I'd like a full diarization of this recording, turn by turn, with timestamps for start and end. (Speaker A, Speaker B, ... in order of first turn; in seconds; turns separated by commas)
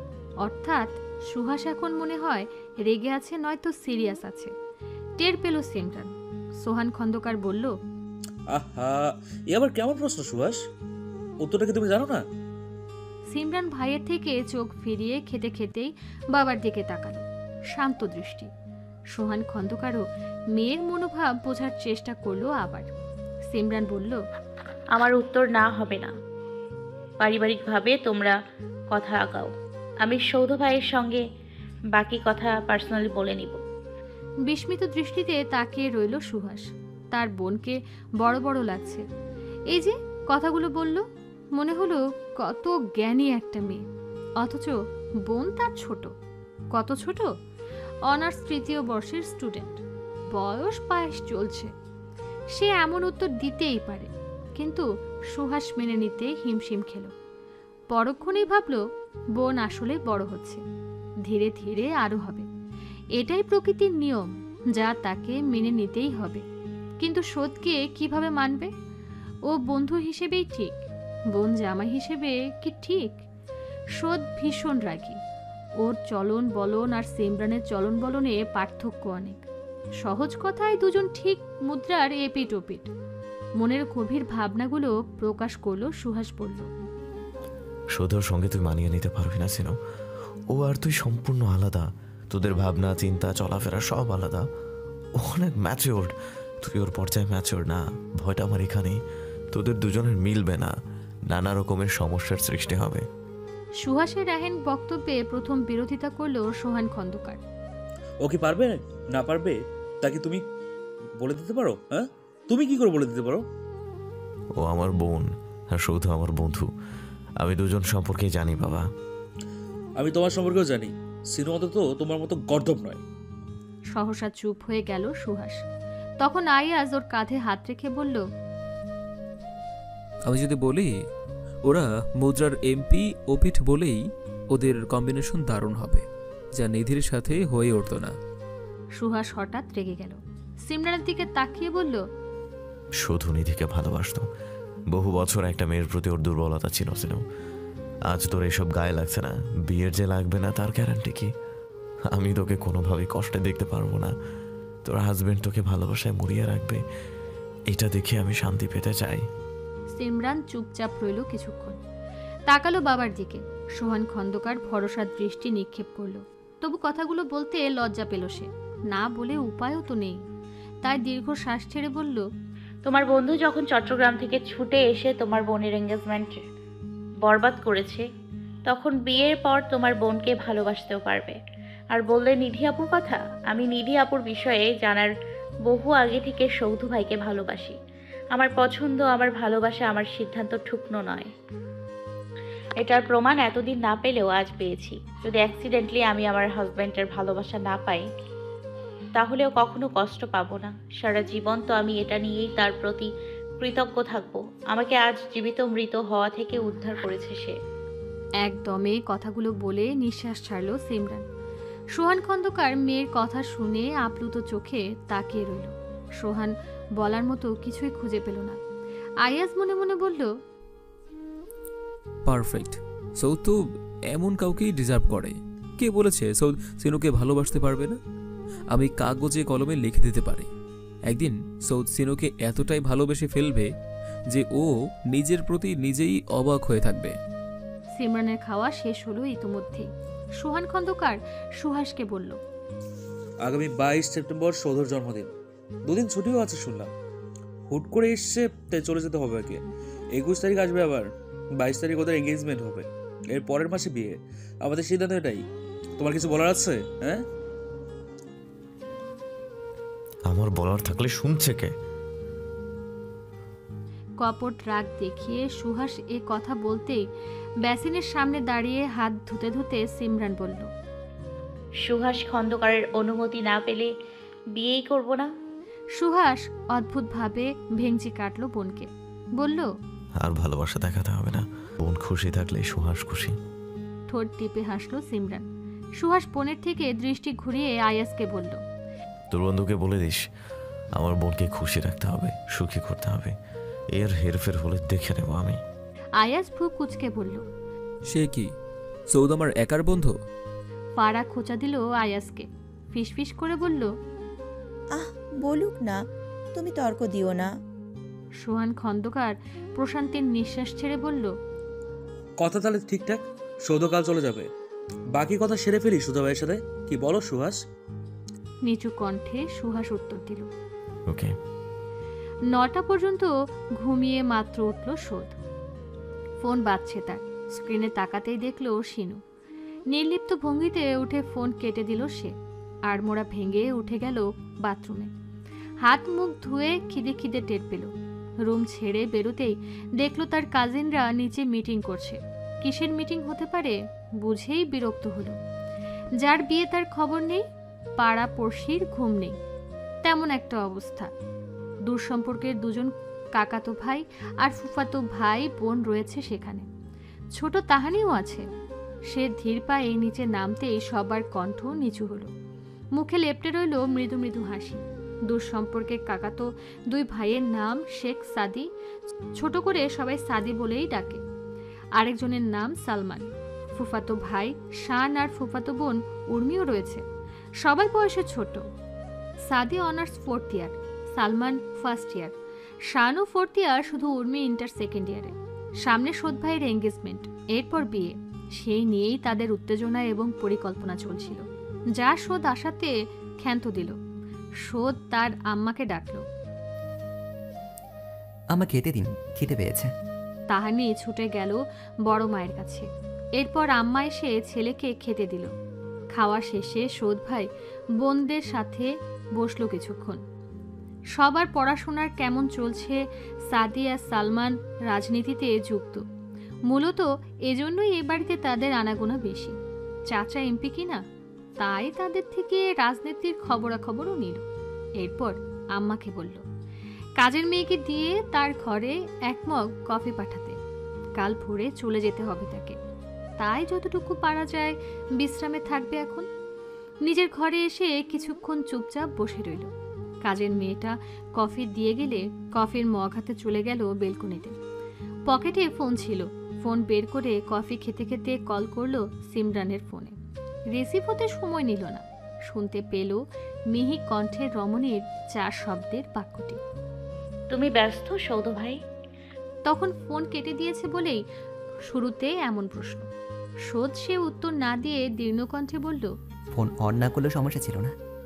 Speaker A: 0.4-4.5, Speaker A: 5.2-7.7, Speaker B: 8.5-10.6, Speaker B: 11.4-12.2, Speaker A: 13.3-18.5, Speaker A: 19.1-22.9, Speaker A: 23.5-24.2, Speaker C: 24.9-26.1, Speaker C: 27.2-28.4, Speaker C: 28.9-29.5, Speaker C: 30.0-31.2, Speaker C: 31.9-33.6, Speaker A: 34.5-39.1, Speaker A: 39.7-43.9, Speaker A: 44.4-46.1, Speaker A: 46.7-47.3, Speaker A: 48.1-49.8, Speaker A: 50.3-51.7, Speaker A: 52.5-57.1, Speaker A: 57.9-58.8, Speaker A: 59.4-60.6, Speaker A: 61.2-62.5, Speaker A: 63.2-66.5, Speaker A: 67.0-68.7, Speaker A: 69.5-70.8, Speaker A: 71.3-73.2, Speaker A: 74.0-75.2, Speaker A: 75.8-79.4, Speaker A: 80.0-82.9, Speaker A: 83.6-86.7, Speaker D: 88.0-89.7, Speaker D: 90.5-94.5, Speaker D: 95.2-99.0, Speaker D: 99.5-100.8, Speaker D: 101.3-103.1, Speaker A: 103.8-107.4, Speaker B: 108.2-110.4, Speaker B: 111.2-113.4, Speaker D: 114.6-116.7, Speaker D: 117.4-118.9, Speaker B: 120.0-123.0, Speaker A: 123.9-125.7, Speaker A: 126.2-128.2, Speaker E: 130.3-131.0, Speaker E: 131.6-138.2, Speaker A: 139.0-142.0, Speaker D: 143.0-144.3, Speaker D: 144.9-147.2, Speaker D: 148.1-151.3, Speaker D: 152.1-154.1, Speaker D: 154.8-156.8, Speaker D: 157.7-159.3, Speaker A: 159.9-161.8, Speaker A: 162.5-170.2, Speaker A: 170.8-172.3, Speaker C: 172.8-176.4, Speaker C: 177.2-178.1, Speaker C: 178.7-181.4, Speaker C: 181.9-185.1, Speaker C: 185.7-187.8, Speaker C: 188.3-191.3, Speaker C: 192.8-198.1, Speaker C: 199.2-203.1, Speaker C: 203.6-207.6, Speaker A: 208.4-211.2, Speaker A: 211.9-218.6, Speaker A: 219.2-220.3, Speaker E: 222.2-228.0, Speaker E: 228.7-230.5, Speaker E: 231.1-233.7, Speaker E: 234.3-237.2, Speaker A: 237.9-242.4, Speaker B: 243.4-245.3, Speaker B: 245.9-246.9, Speaker B: 247.7-249.6, Speaker B: 250.1-255.4, Speaker B: 256.0-257.2, Speaker D: 260.3-261.7, Speaker A: 264.2-267.0, Speaker A: 267.6-270.7, Speaker C: 271.9-273.9, Speaker C: 274.6-275.3, Speaker A: 276.0-279.7, Speaker D: 280.2-283.4, Speaker A: 284.1-285.5, Speaker A: 286.0-288.6, Speaker D: 289.3-290.2, Speaker D: 291.0-293.3, Speaker D: 293.9-295.6, Speaker A: 296.2-297.4, Speaker E: 298.1-298.5, Speaker E: 299.1-300.1, Speaker A: 301.0-303.9, Speaker F: 304.9-306.0, Speaker F: 306.6-307.5, Speaker A: 308.4-311.3, Speaker B: 312.4-314.5, Speaker B: 315.1-317.6, Speaker A: 318.6-320.5, Speaker D: 321.1-321.4, Speaker A: 322.5-325.4, Speaker A: 326.4-329.2, Speaker A: 329.9-332.4, Speaker A: 332.9-335.1, Speaker A: 335.8-337.9, Speaker A: 338.4-345.4, Speaker A: 346.2-347.4, Speaker A: 348.0-349.4, Speaker A: 350.0-351.1, Speaker A: 351.9-356.7, Speaker A: 357.4-358.5, Speaker A: 359.1-362.3, Speaker A: 362.9-368.7, Speaker A: 369.4-371.2, Speaker A: 372.0-377.0, Speaker A: 377.6-378.7, Speaker A: 379.5-382.4, Speaker A: 382.9-394.0, Speaker A: 394.6-396.3, Speaker G: 398.5-399.9, Speaker A: 400.5-405.5, Speaker A: 406.1-407.5, Speaker A: 408.0-410.2, Speaker A: 411.1-416.0, Speaker A: 416.7-419.6, Speaker A: 420.1-421.0, Speaker A: 421.6-424.4, Speaker A: 425.0-426.4, Speaker A: 427.2-430.6, Speaker A: 431.2-432.8, Speaker A: 433.4-436.3, Speaker A: 437.1-439.7, Speaker A: 440.2-444.6, Speaker A: 445.3-450.1, Speaker A: 450.7-456.6, Speaker C: 457.5-458.8, Speaker A: 459.7-461.2, Speaker A: 461.9-463.1, Speaker A: 463.7-466.1, Speaker G: 466.5-467.9